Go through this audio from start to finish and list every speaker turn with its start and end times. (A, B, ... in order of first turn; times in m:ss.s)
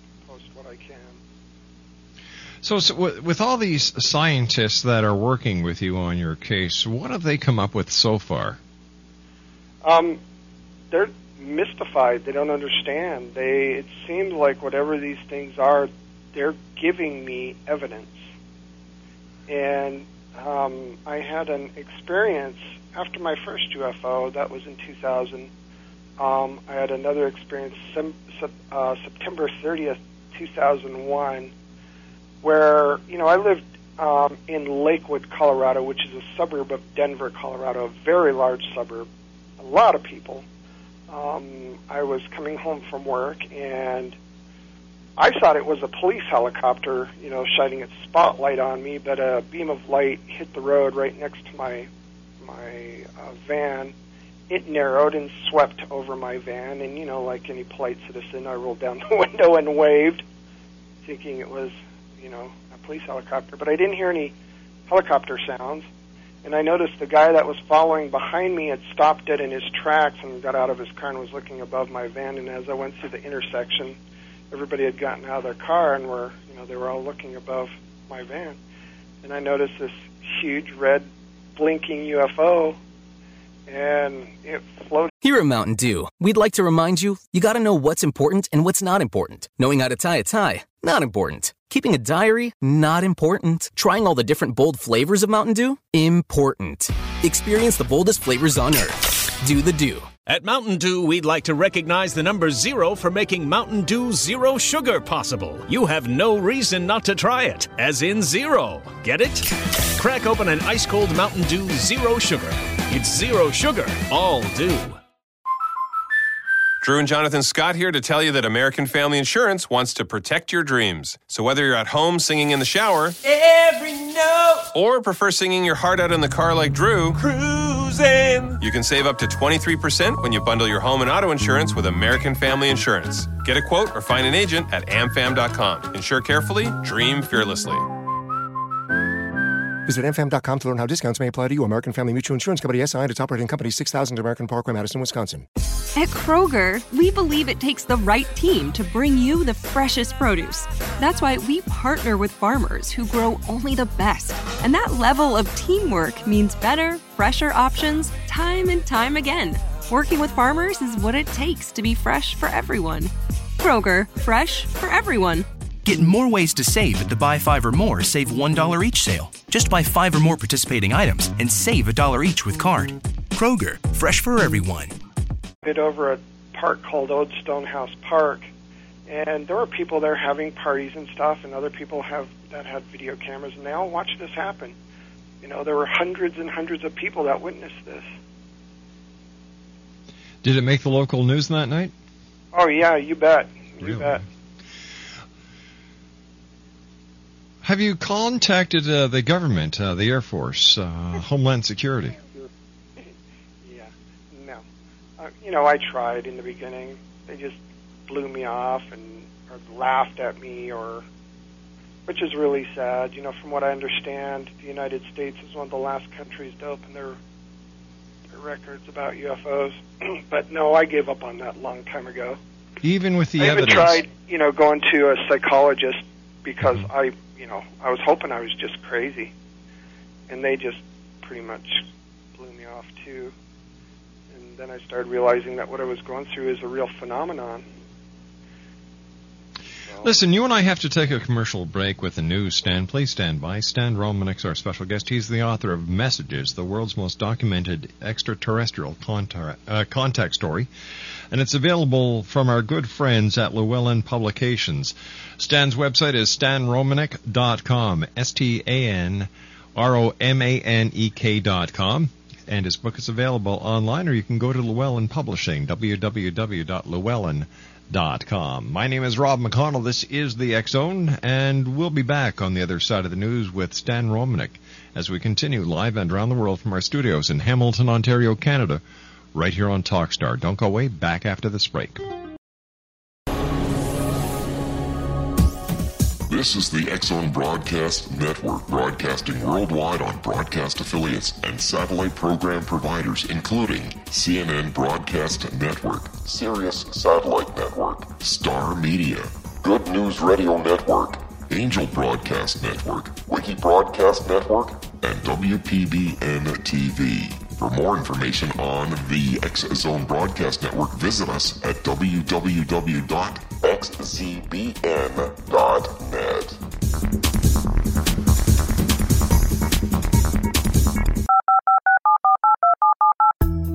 0:00.2-0:01.2 A
0:02.6-0:08.6 B
0:09.8-0:10.2 A
0:10.9-0:18.3 A
0:19.5-0:25.5 A
0:26.2-0:31.5 A
0:32.4-0:39.1 A
0:39.6-0:40.4 A
0:41.1-0:44.2 A
0:45.2-0:51.9 A
0:52.4-0:53.9 A
0:54.5-1:00.2 A
1:01.0-1:04.3 A
1:04.9-1:05.9 A
1:06.4-1:14.0 A
1:14.5-1:18.6 A
1:19.2-1:22.8 A
1:23.7-1:25.1 A
1:25.2-1:40.1 C
1:40.3-1:55.0 D
1:56.8-2:03.2 E
2:03.2-2:04.7 F
2:04.7-2:07.2 E
2:07.2-2:08.6 F
2:08.6-2:17.8 E
2:19.9-2:25.4 G
2:26.0-2:45.5 H
2:45.8-2:55.0 I
2:55.6-2:58.5 A
2:59.1-3:04.7 A
3:05.4-3:08.1 A
3:10.4-3:11.9 B
3:12.5-3:14.2 A
3:17.6-3:22.2 B
3:23.6-3:24.6 A
3:25.2-3:31.0 A
3:32.1-3:37.2 A
3:38.3-3:42.4 A
3:42.8-3:44.0 B
3:43.4-3:49.3 A
3:50.3-3:51.8 A
3:52.4-3:53.3 A
3:54.3-3:57.6 A
4:00.0-4:10.7 B
4:11.3-4:38.8 B
4:39.3-4:42.0 B
4:46.3-5:16.6 J